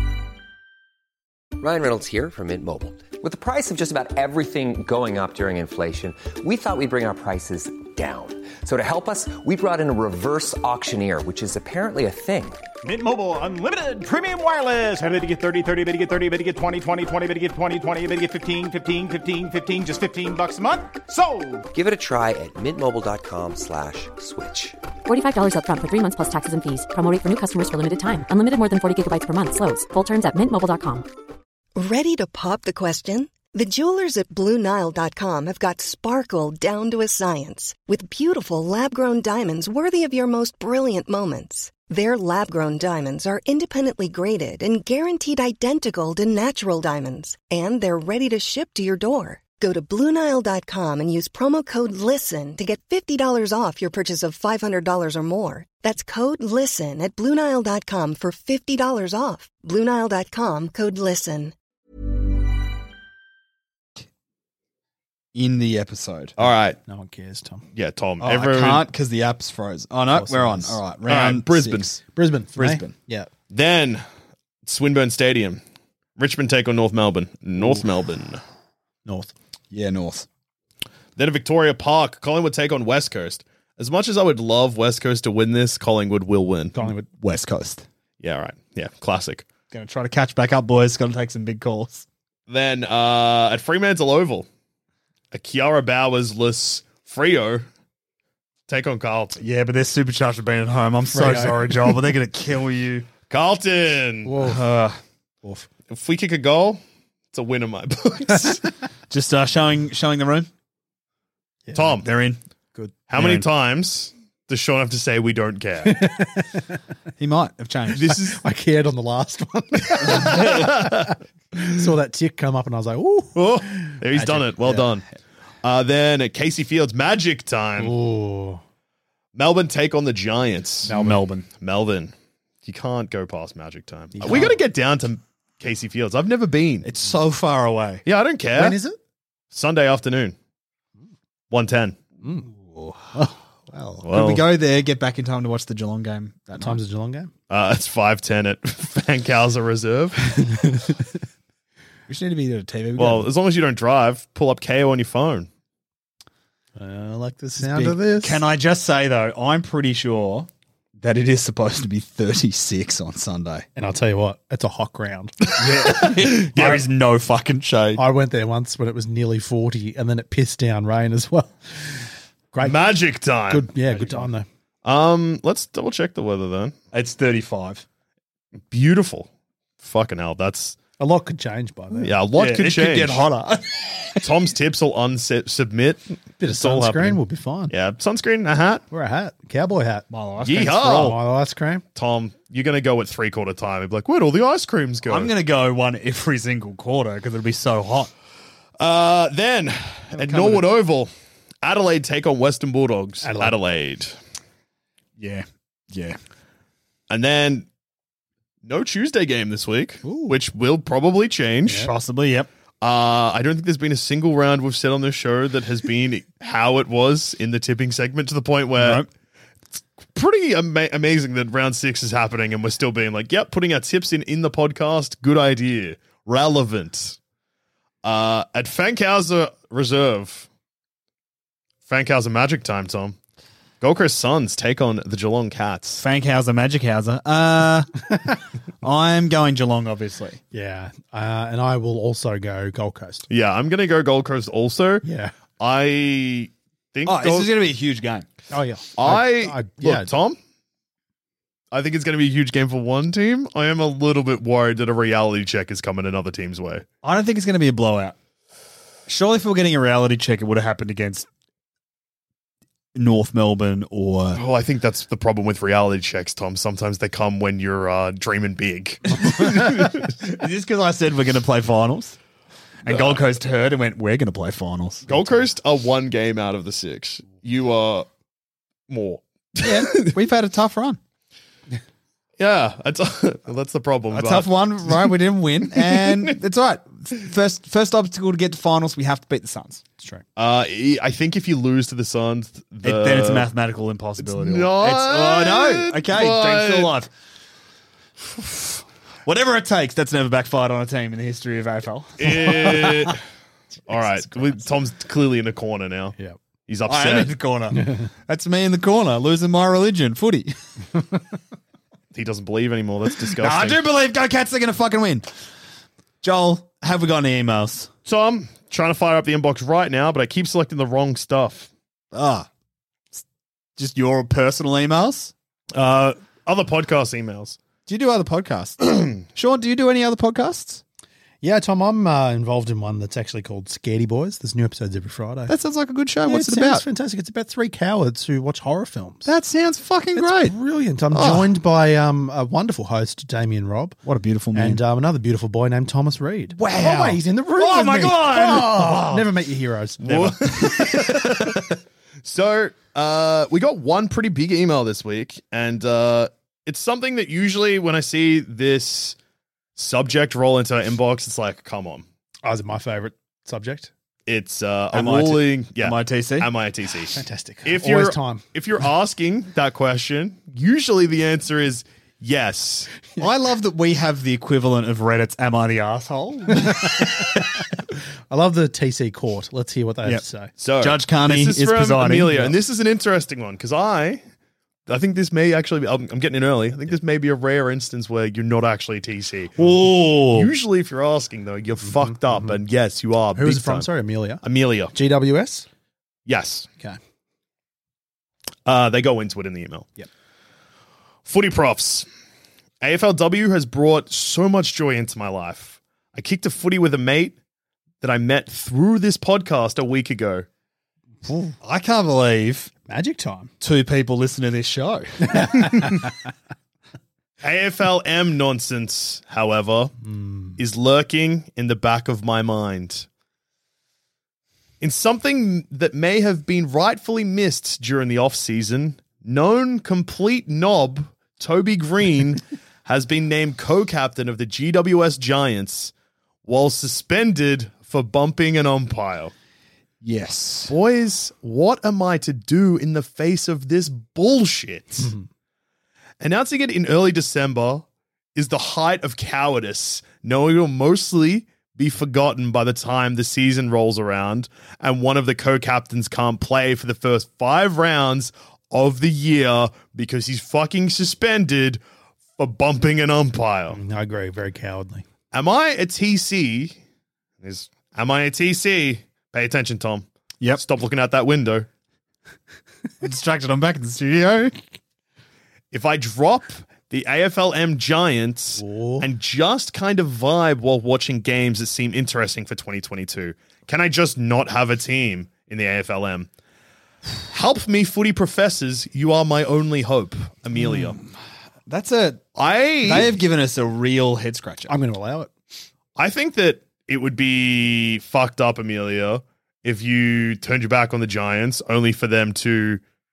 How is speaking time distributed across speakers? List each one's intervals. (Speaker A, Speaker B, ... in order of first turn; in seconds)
Speaker A: 1.6-12.6, 21.7-24.8
Speaker B: 12.8-21.6
Speaker C: 25.1-31.1
Speaker D: 31.7-61.5
Speaker E: 65.3-66.3, 68.2-71.8, 72.6-72.9, 79.7-80.3, 87.2-87.8, 89.7-92.1, 99.4-103.1, 104.4-105.0, 109.1-110.5, 112.0-112.4, 113.1-113.5, 117.2-118.1, 130.9-131.4, 136.8-138.0, 142.5-146.8, 152.1-153.3, 157.6-160.5, 161.0-163.7, 165.6-168.0, 176.9-177.8, 182.4-184.3, 190.1-191.2, 195.1-198.1, 200.1-200.7, 205.2-206.2, 211.8-212.5, 218.8-219.1, 236.0-238.1, 238.8-240.4, 247.1-248.3, 257.0-258.2, 259.1-261.3, 262.9-264.4, 269.4-272.2, 272.8-275.3, 279.6-281.0, 284.1-289.8, 292.8-297.1, 299.2-303.1, 306.9-310.6, 313.2-315.3, 316.2-317.9, 322.1-322.5, 323.8-325.3, 327.9-330.8, 335.5-336.8, 339.3-340.6, 341.1-341.4, 344.1-344.8, 346.6-349.2, 350.1-351.3, 364.9-366.5, 373.2-377.4, 380.8-382.5, 389.6-390.5, 411.6-412.7, 413.6-416.1, 440.0-440.7, 473.0-474.6, 491.7-492.2, 492.9-494.7
Speaker F: 66.4-66.8, 67.7-68.8, 71.1-72.0, 73.5-74.0, 74.7-75.6, 76.2-78.4, 81.2-86.8, 88.2-89.5, 92.5-94.5, 95.3-97.7, 98.7-99.4, 103.3-104.4, 105.9-106.8, 107.3-108.7, 111.7-112.1, 113.1-116.0, 117.9-118.4, 120.0-121.2, 123.4-125.0, 125.6-127.9, 129.3-131.0, 131.6-132.1, 132.6-136.9, 138.1-138.8, 139.5-140.3, 141.5-142.0, 144.0-144.4, 147.5-150.4, 152.9-155.5, 165.8-166.8, 172.6-174.1, 174.8-176.7, 178.7-179.3, 179.8-180.8, 181.9-183.2, 184.2-188.8, 190.4-191.2, 191.9-195.3, 198.8-201.1, 201.6-204.2, 207.1-207.7, 208.6-211.9, 212.8-219.1, 220.1-227.2, 228.0-230.5, 231.9-233.2, 233.8-236.0, 243.3-245.1, 245.6-247.5, 249.0-250.4, 251.7-256.9, 264.4-270.1, 272.9-273.2, 275.1-278.1, 278.9-280.1, 282.4-285.1, 285.8-286.4, 290.4-293.5, 294.2-296.9, 302.2-303.2, 303.9-306.1, 306.7-307.4, 312.1-313.8, 318.1-321.7, 325.7-327.6, 350.0-351.7, 352.2-359.2, 359.8-362.1, 364.3-372.9, 380.6-384.2, 384.9-389.7, 390.3-393.9, 394.4-394.9, 396.3-396.7, 398.7-399.9, 401.3-402.1, 402.8-407.4, 408.0-410.4, 417.4-419.9, 420.6-423.1, 424.8-435.9, 436.4-439.3, 440.7-445.1, 446.2-461.8, 462.4-463.8, 465.3-466.8, 467.4-471.7, 475.7-486.3, 487.3-491.0, 492.4-493.1, 495.9-502.8
Speaker G: 66.4-67.6, 70.1-70.8, 72.0-73.3, 79.0-79.3, 86.7-87.1, 101.1-101.9, 104.2-104.6, 111.7-111.9, 115.8-116.7, 118.3-125.0, 127.8-128.6, 130.9-131.2, 134.1-134.6, 138.5-139.0, 142.2-142.5, 143.1-143.8, 146.6-147.3, 150.4-150.9, 156.8-158.4, 163.8-165.4, 167.9-172.9, 173.4-174.5, 181.0-182.1, 186.4-187.7, 188.9-191.8, 203.2-203.6, 211.7-211.9, 240.5-243.2, 245.0-245.3, 248.5-250.1, 307.7-308.1, 331.4-335.6, 336.2-339.3, 340.1-344.0, 344.5-350.4, 362.4-363.9, 367.1-368.4, 376.5-377.5, 378.3-380.5, 391.8-392.6, 393.4-395.7, 411.2-411.5, 412.9-413.5, 415.3-416.1, 420.1-420.6, 463.7-465.1, 478.6-479.1, 494.7-495.3